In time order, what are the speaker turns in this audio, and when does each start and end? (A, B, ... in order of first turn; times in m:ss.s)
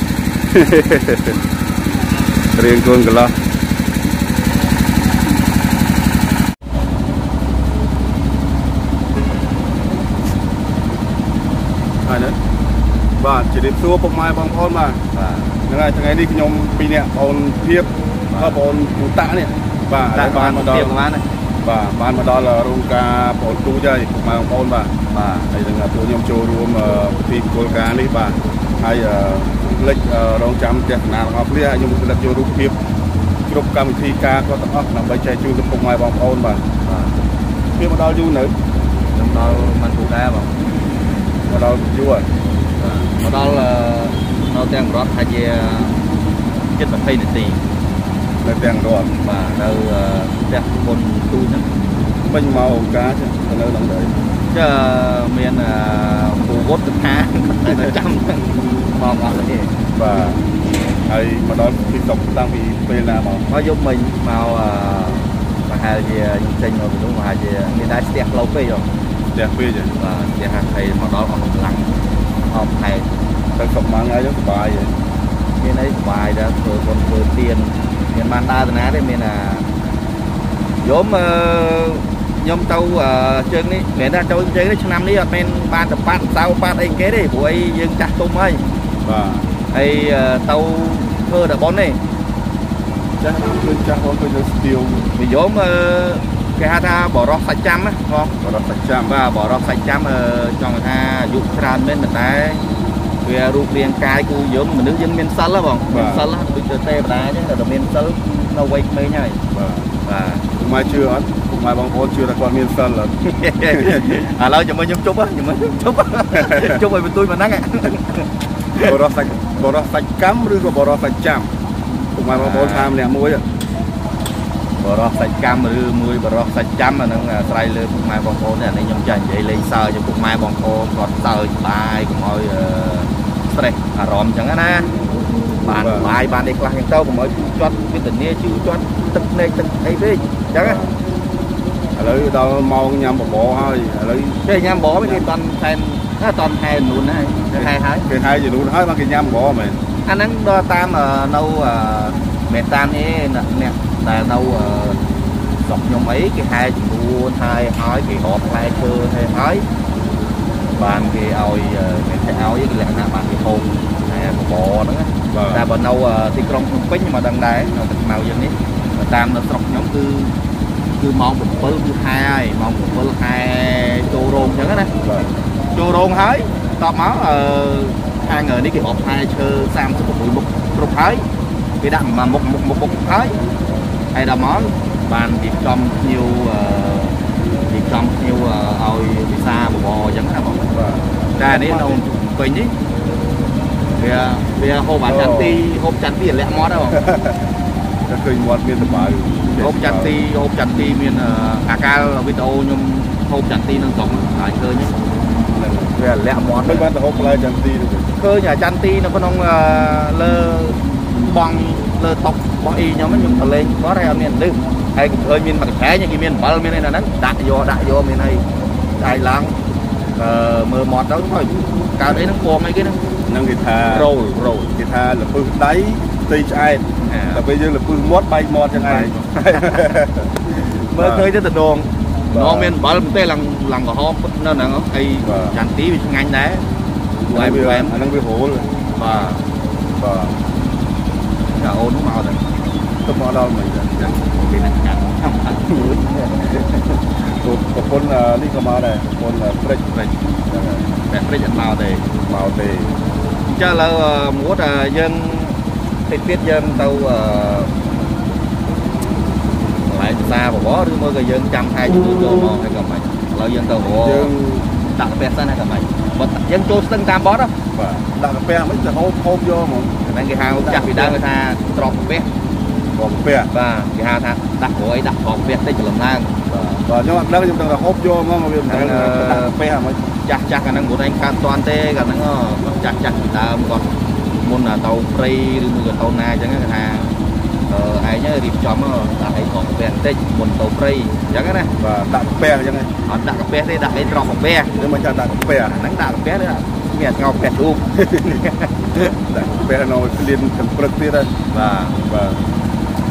0:00.5-0:01.4 A
0:02.5-0:03.3 A
0:12.0-0:12.4 A
0:13.2-0:15.0 A
0:15.1-0:15.6 B
0:15.7-0:21.0 A
0:18.3-0:18.6 B
0:20.1-0:21.3 B
0:21.6-0:24.9 A
0:25.1-0:25.5 B
0:25.5-0:32.8 A
0:33.5-0:36.6 A
0:36.8-0:37.2 B
0:37.7-0:38.6 A
0:39.1-0:40.6 B
0:41.5-0:42.3 A
0:42.8-0:46.0 B
0:46.7-0:47.6 B
0:48.4-0:49.1 A
0:49.2-0:51.7 B
0:52.3-0:54.1 A
0:54.5-0:59.7 B
1:00.0-1:00.4 A
1:01.0-1:03.4 A
1:03.5-1:08.9 B
1:09.3-1:09.9 A
1:10.0-1:11.9 B
1:12.5-1:13.1 B
1:13.6-1:15.0 A
1:15.6-1:19.7 B
1:20.8-1:28.6 B
1:29.0-1:29.5 A
1:29.7-1:32.0 B
1:33.2-1:35.1 A
1:35.1-1:38.4 B
1:38.4-1:39.2 A
1:39.0-1:42.6 B
1:43.2-1:49.4 B
1:45.9-1:46.3 A
1:49.5-1:49.9 A
1:50.0-1:50.5 B
1:50.6-1:53.1 A
1:53.2-1:59.0 B
1:53.7-1:54.2 A
1:56.4-1:56.8 A
1:58.8-2:01.5 A
2:02.2-2:03.4 A
2:02.4-2:02.9 B
2:04.8-2:14.9 B
2:15.6-2:20.8 B
2:15.7-2:16.2 A
2:20.6-2:21.0 A
2:22.0-2:24.4 A
2:24.4-2:28.1 B
2:25.0-2:25.3 A
2:27.6-2:29.8 A
2:30.0-2:35.0 B
2:35.6-2:39.7 B
2:40.8-2:50.3 B
2:45.3-2:45.7 A
2:51.0-2:54.9 B
2:55.0-2:55.3 A
2:55.7-3:01.2 B
3:01.8-3:03.4 B
3:04.1-3:07.1 B
3:07.7-3:10.7 B
3:10.7-3:12.0 A
3:11.4-3:12.7 B
3:14.0-3:17.0 B
3:15.1-3:15.7 A
3:17.0-3:17.4 A
3:18.1-3:20.2 A
3:19.6-3:25.0 B
3:25.5-3:26.0 A
3:25.9-3:26.9 B
3:26.6-3:28.1 A
3:28.1-3:38.4 B
3:39.0-3:39.6 B
3:40.2-3:43.0 B
3:43.3-3:44.1 A
3:43.9-3:44.7 B
3:44.8-3:50.3 A
3:47.0-3:47.4 B
3:48.7-3:56.6 B
3:51.0-3:51.3 A
3:52.3-3:52.8 A
3:55.2-3:55.6 A
3:57.3-3:58.7 A
3:57.3-3:58.0 B
3:58.9-3:59.4 B
4:00.0-4:00.4 A
4:01.5-4:02.4 B
4:03.0-4:04.1 A
4:04.1-4:06.7 B
4:05.7-4:10.0 A
4:10.5-4:10.9 A
4:11.0-4:12.0 B
4:12.3-4:12.9 A
4:13.5-4:17.7 B
4:19.9-4:24.3 B
4:24.0-4:24.7 A
4:24.9-4:27.5 B
4:27.8-4:29.9 A
4:30.0-4:32.3 B
4:30.6-4:31.2 A
4:33.0-4:33.5 A
4:33.5-4:36.8 B
4:36.8-4:40.0 A
4:38.7-4:39.5 B
4:40.2-4:43.9 B
4:44.4-4:47.1 B
4:47.7-4:51.7 B
4:51.8-4:52.9 A
4:53.1-4:54.7 B
4:54.8-4:55.8 A
4:55.6-4:58.8 B
4:58.0-4:58.4 A
4:59.0-5:01.3 A
5:01.5-5:02.0 B
5:02.1-5:02.4 A